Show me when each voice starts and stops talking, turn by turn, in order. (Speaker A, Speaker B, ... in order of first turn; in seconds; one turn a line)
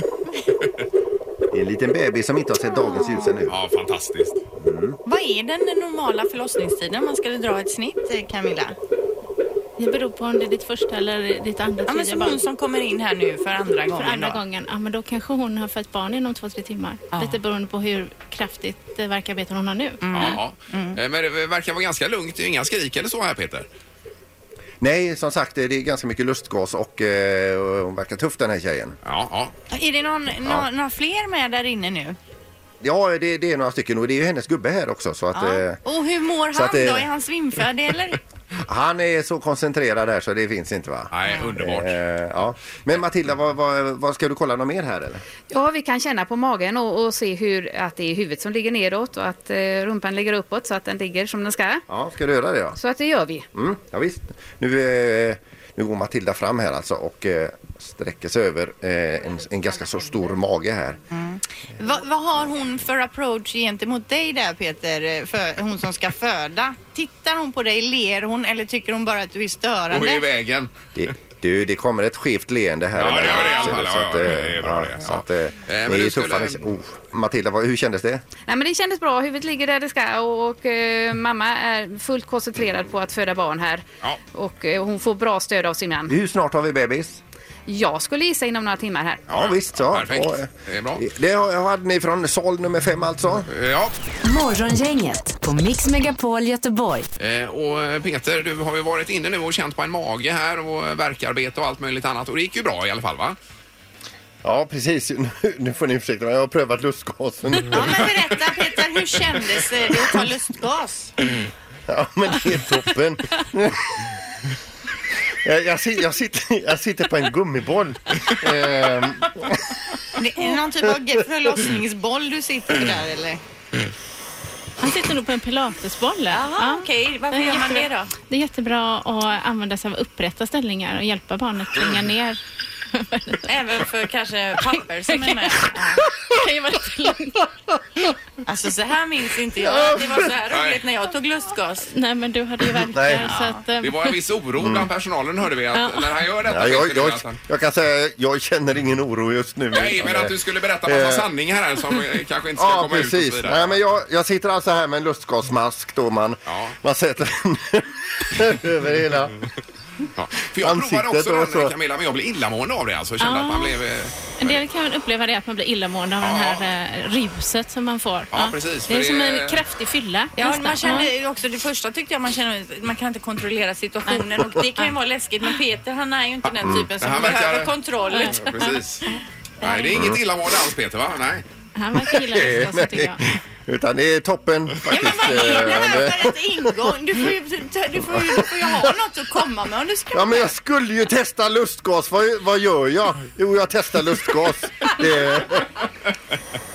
Speaker A: 1.5-3.5
Speaker B: 2.9-3.4
Speaker C: 3.5-4.4
Speaker A: 4.6-5.0
Speaker B: 5.0-8.8
Speaker D: 9.8-12.4
Speaker B: 11.9-14.4
Speaker D: 13.9-20.3
Speaker B: 17.1-17.4
Speaker B: 20.0-21.0
Speaker C: 20.1-23.6
Speaker A: 24.8-29.0
Speaker C: 29.0-29.5
Speaker B: 29.7-32.2
Speaker A: 32.8-35.8
Speaker B: 35.3-38.2
Speaker A: 36.5-37.1
Speaker A: 38.6-45.2
Speaker C: 41.1-42.0
Speaker E: 45.5-51.8
Speaker A: 51.9-52.8
Speaker E: 52.8-53.5
Speaker A: 53.5-61.0
Speaker B: 61.1-70.2
Speaker C: 69.9-70.7
Speaker A: 71.0-78.2
Speaker C: 73.0-76.6
Speaker E: 78.5-86.1
Speaker A: 86.1-87.2
Speaker E: 87.7-89.2
Speaker C: 89.3-91.0
Speaker A: 89.3-93.5
Speaker C: 93.5-94.0
Speaker F: 94.2-97.1
Speaker C: 97.2-103.4
Speaker A: 104.4-108.1
Speaker B: 107.7-111.1
Speaker A: 111.9-114.1
Speaker A: 115.3-119.8
Speaker B: 120.2-123.4
Speaker D: 124.8-132.4
Speaker B: 126.3-128.1
Speaker D: 132.9-133.5
Speaker B: 133.4-136.1
Speaker D: 135.1-135.7
Speaker D: 136.3-137.4
Speaker B: 138.4-141.9
Speaker A: 139.6-140.3
Speaker C: 140.5-140.8
Speaker D: 141.9-144.1
Speaker A: 142.9-143.3
Speaker B: 143.2-143.6
Speaker C: 143.8-147.4
Speaker A: 144.6-144.9
Speaker D: 145.7-146.1
Speaker A: 146.4-151.3
Speaker C: 149.7-153.8
Speaker A: 152.6-159.4
Speaker C: 156.5-156.8
Speaker C: 160.2-164.6
Speaker A: 160.6-161.7
Speaker D: 163.2-163.8
Speaker D: 164.4-171.1
Speaker C: 166.2-166.6
Speaker C: 168.3-169.6
Speaker B: 170.4-179.9
Speaker C: 176.4-179.0
Speaker D: 178.1-178.8
Speaker C: 179.6-181.4
Speaker A: 179.9-180.2
Speaker D: 181.8-183.2
Speaker A: 181.9-187.0
Speaker C: 184.8-186.0
Speaker B: 184.9-190.5
Speaker A: 188.0-188.9
Speaker A: 190.1-195.7